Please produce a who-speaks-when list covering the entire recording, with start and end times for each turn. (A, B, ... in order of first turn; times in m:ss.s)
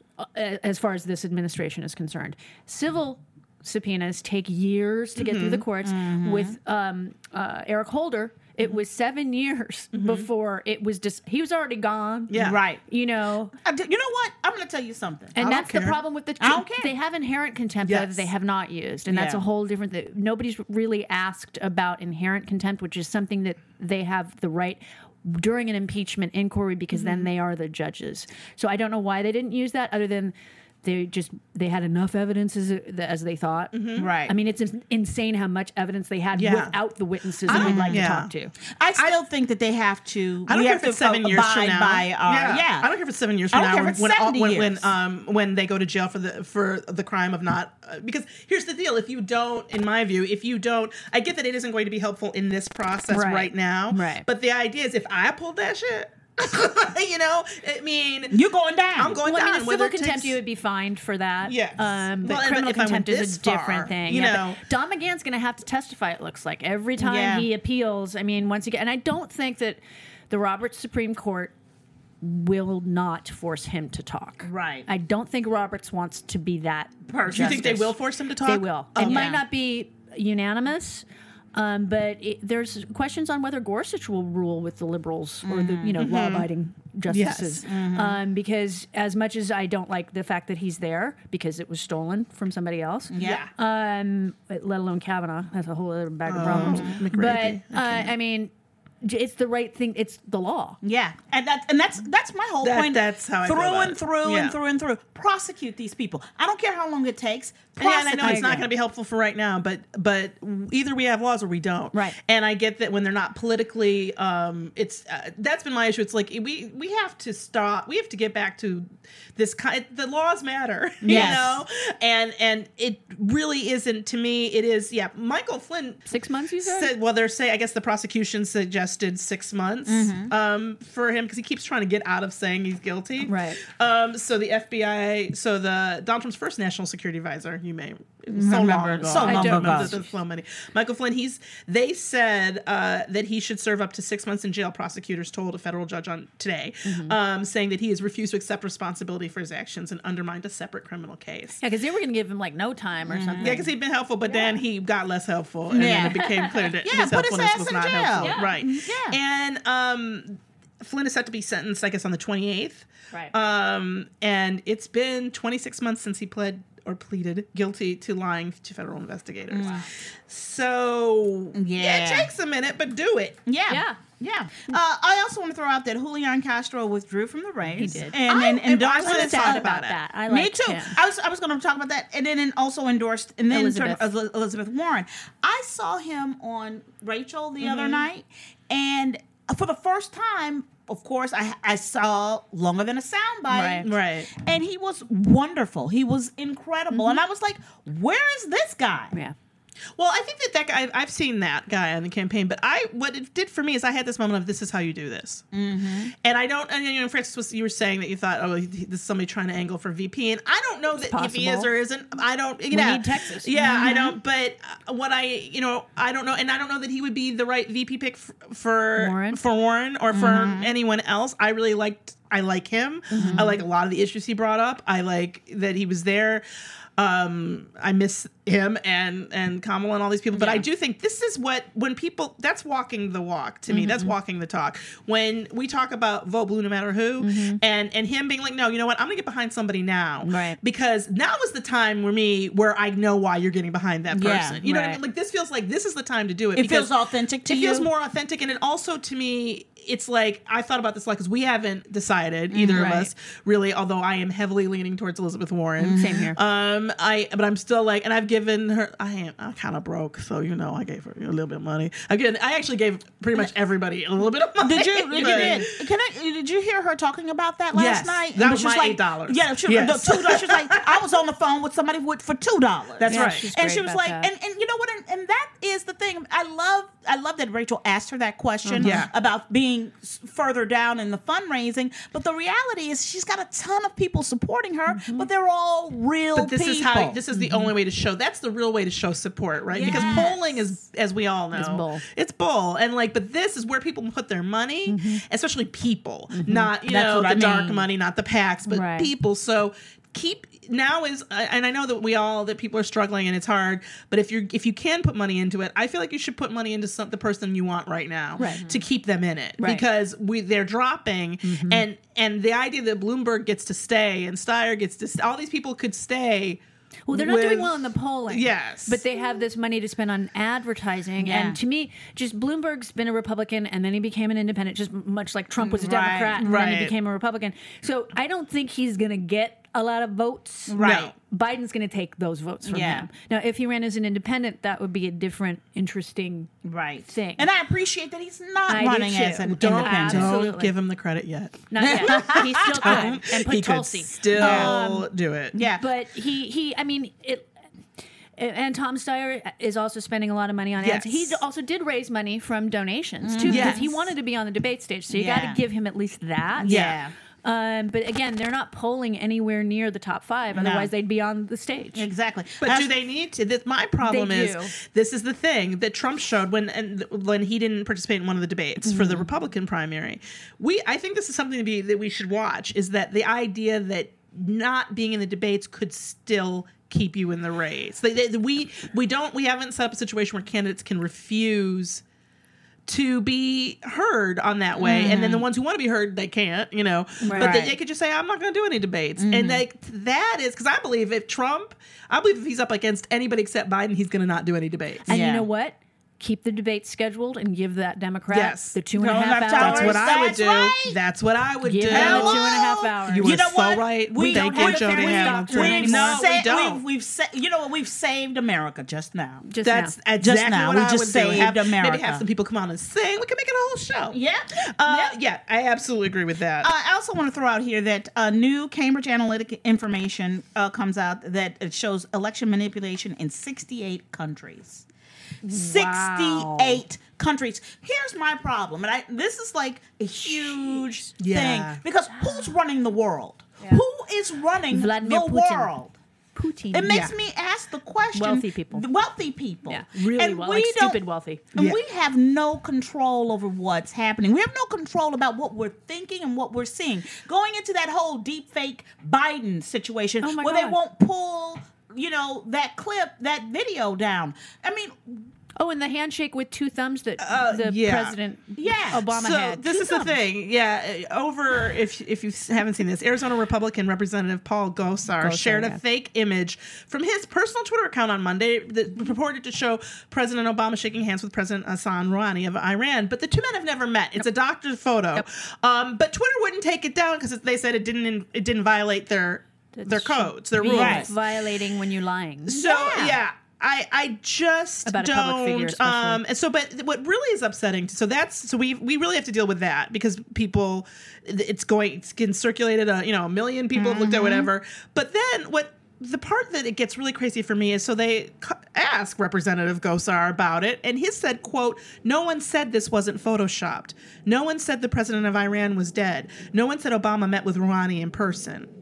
0:00.2-0:12.3 A
0:05.2-0:05.6 B
0:05.8-0:06.6 C
0:09.9-0:10.3 B
0:12.3-0:12.6 B
0:12.3-0:12.8 C
0:12.9-0:13.5 A
0:13.6-0:15.4 C
0:15.3-0:38.5 A
0:15.4-0:16.0 B
0:16.4-0:16.9 C
0:17.8-0:18.3 B
0:19.1-0:19.4 C
0:26.9-0:27.2 C
0:33.7-0:34.1 B
0:34.0-0:34.3 C
0:36.3-0:36.8 B
0:37.4-0:38.3 B
0:37.5-0:38.0 C
0:38.6-0:42.9 C
0:40.5-0:58.4 B
0:43.5-0:44.9 C
0:53.1-0:54.2 A
0:58.3-0:59.2 C
0:59.0-1:00.4 B
0:59.2-1:11.5 A
1:01.4-1:04.6 B
1:07.0-1:07.5 C
1:12.2-1:38.5 A
1:14.4-1:14.9 C
1:17.1-1:17.9 C
1:17.3-1:19.4 B
1:19.0-1:19.4 C
1:25.4-1:26.0 C
1:26.0-1:26.4 B
1:27.1-1:27.6 B
1:27.6-1:28.2 C
1:33.1-1:33.5 C
1:33.2-1:33.5 B
1:36.3-1:38.1 B
1:36.4-1:37.0 C
1:39.0-1:40.8 A
1:40.8-1:48.7 C
1:42.6-1:44.6 B
1:47.8-2:06.0 B
1:48.2-1:48.6 A
2:01.0-2:01.6 C
2:01.0-2:01.4 A
2:06.1-2:06.9 A
2:06.6-2:31.6 B
2:09.8-2:10.3 C
2:13.2-2:13.6 A
2:18.3-2:20.0 C
2:19.1-2:20.1 A
2:26.8-2:27.2 A
2:31.6-2:33.7 A
2:33.1-2:33.6 C
2:33.4-2:53.4 B
2:34.3-2:34.6 A
2:35.7-2:36.2 C
2:35.8-2:36.7 A
2:36.8-2:39.2 C
2:38.2-2:38.6 A
2:49.5-2:49.9 C
2:51.5-2:52.3 C
2:53.4-2:59.7 C
2:53.7-2:54.0 A
2:57.8-2:58.3 A
2:58.2-3:00.0 B
2:58.8-3:01.0 A
3:00.3-3:19.1 C
3:03.5-3:04.0 A
3:07.6-3:08.0 B
3:13.5-3:13.9 A
3:13.8-3:14.3 B
3:16.9-3:17.2 A
3:20.0-3:25.4 B
3:25.5-3:26.1 C
3:26.2-3:46.4 B
3:31.0-3:31.7 A
3:32.7-3:34.1 A
3:33.6-3:34.1 C
3:39.0-3:39.4 A
3:40.1-3:40.7 C
3:43.1-3:43.6 A
3:43.2-3:43.6 C
3:47.0-4:06.9 B
3:50.3-3:50.6 C
3:50.4-3:50.6 A
3:53.7-3:54.1 A
3:57.2-3:57.6 A
4:00.2-4:00.6 A
4:04.1-4:04.6 C
4:04.6-4:05.0 A
4:06.5-4:07.9 C
4:07.4-4:25.6 B
4:12.5-4:13.0 C
4:12.6-4:13.1 A
4:15.8-4:16.3 C
4:15.9-4:16.4 A
4:24.6-4:47.2 C
4:25.1-4:25.7 A
4:27.7-4:31.0 B
4:33.0-4:33.5 B
4:33.1-4:34.3 A
4:38.6-4:39.0 A
4:38.8-4:39.1 B
4:44.9-4:45.3 A
4:46.4-5:19.0 B
4:47.3-4:47.7 A
4:49.7-4:50.6 C
4:49.8-4:50.4 A
4:51.5-4:52.0 A
4:54.8-4:55.2 A
4:56.3-4:56.7 A
4:56.8-4:57.9 C
4:58.7-4:59.1 A
5:08.4-5:08.6 A
5:08.4-5:08.8 C
5:09.6-5:09.8 A
5:11.4-5:11.8 A
5:17.1-5:36.5 A
5:21.2-5:21.6 C
5:25.6-5:26.6 C
5:26.4-5:26.9 B
5:30.7-5:31.1 C
5:30.8-5:31.1 B
5:32.6-5:33.1 C
5:36.6-5:40.4 C
5:37.1-5:37.5 A
5:38.7-5:40.7 A
5:39.3-5:45.6 B
5:41.7-5:45.1 A
5:41.8-5:43.2 C
5:44.3-5:44.8 C
5:45.5-5:45.8 C
5:45.7-5:47.5 A
5:48.4-5:56.8 A
5:50.8-5:51.4 B
5:53.2-5:53.9 C
5:53.4-5:54.0 B
5:55.1-5:55.6 C
5:56.6-5:57.1 C
5:56.6-5:57.0 B
5:57.4-6:02.0 A
6:00.5-6:00.9 C
6:01.9-6:02.9 C
6:02.6-6:22.0 B
6:04.0-6:04.7 A
6:08.8-6:09.2 A
6:22.9-6:35.1 B
6:24.8-6:25.4 C
6:27.2-6:27.6 A
6:27.3-6:27.8 C
6:29.2-6:29.6 C
6:35.0-6:40.2 A
6:35.1-6:35.4 C
6:38.3-6:38.8 B
6:38.9-6:41.0 C
6:39.5-6:46.8 B
6:41.6-6:43.4 A
6:41.9-6:49.4 C
6:44.2-6:46.3 A
6:49.5-6:49.9 A
6:49.6-6:56.7 B
6:50.2-6:52.2 C
6:54.1-6:55.2 C
6:56.6-7:04.8 C
7:05.4-7:06.8 A
7:05.4-7:15.9 C
7:10.3-7:10.8 A
7:11.2-7:11.8 B
7:12.1-7:12.5 A
7:14.7-7:15.7 A
7:16.3-7:17.0 A
7:16.7-7:21.0 C
7:16.9-7:17.1 B
7:18.1-7:18.8 A
7:19.7-7:21.5 A
7:21.5-7:35.3 C
7:21.5-7:21.8 B
7:30.2-7:30.8 A
7:35.6-7:40.2 A
7:37.2-7:38.2 B
7:38.5-7:39.0 C
7:38.9-8:01.2 B
7:45.2-7:45.8 A
7:59.7-8:02.6 A
8:00.6-8:01.1 C
8:02.5-8:28.7 B
8:02.5-8:03.2 C
8:04.8-8:06.2 A
8:13.7-8:14.5 C